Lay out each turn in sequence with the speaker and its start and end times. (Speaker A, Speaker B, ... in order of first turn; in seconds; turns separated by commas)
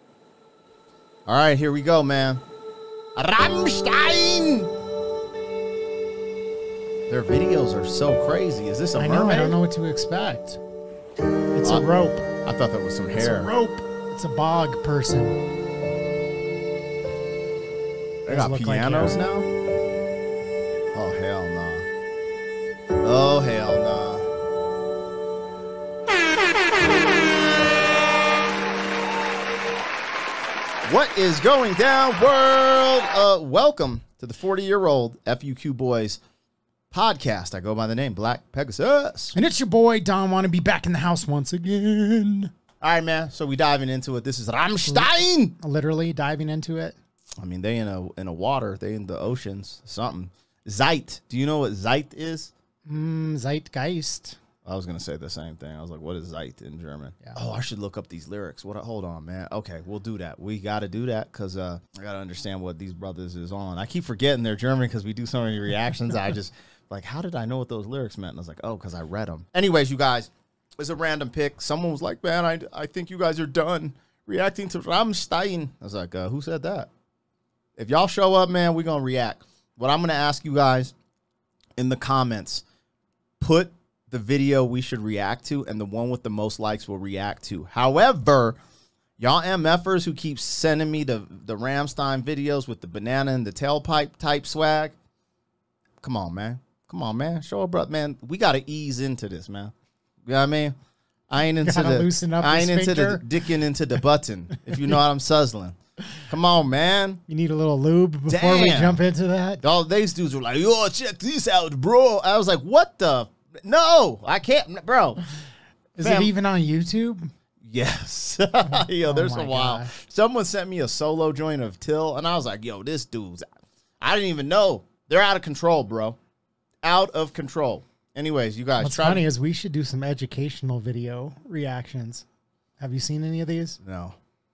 Speaker A: 1.2-2.4, Speaker A: 3.1-4.7, Speaker A: 7.1-9.6, Speaker B: 9.0-10.6, Speaker B: 11.5-12.2, Speaker A: 12.4-13.5, Speaker B: 13.2-15.4, Speaker B: 18.3-19.2, Speaker A: 18.3-19.5, Speaker A: 20.9-21.9, Speaker A: 23.0-24.3, Speaker A: 30.8-36.2, Speaker A: 36.9-39.4, Speaker B: 39.3-42.5, Speaker A: 42.8-45.5, Speaker B: 44.9-47.0, Speaker A: 47.4-52.5, Speaker B: 52.9-54.4, Speaker A: 54.6-76.9, Speaker A: 77.8-80.9, Speaker A: 81.8-82.6, Speaker A: 83.4-88.6, Speaker A: 89.2-95.0, Speaker A: 96.0-99.7, Speaker A: 100.3-100.7, Speaker A: 101.3-107.2, Speaker B: 101.6-103.2, Speaker B: 107.3-109.6, Speaker A: 108.3-109.0, Speaker A: 109.6-115.2, Speaker B: 116.0-117.3, Speaker A: 116.0-116.3, Speaker A: 117.6-123.5, Speaker B: 118.7-119.9, Speaker A: 124.0-126.2, Speaker A: 126.8-129.2, Speaker B: 128.8-132.2, Speaker B: 132.8-133.8, Speaker A: 133.8-134.2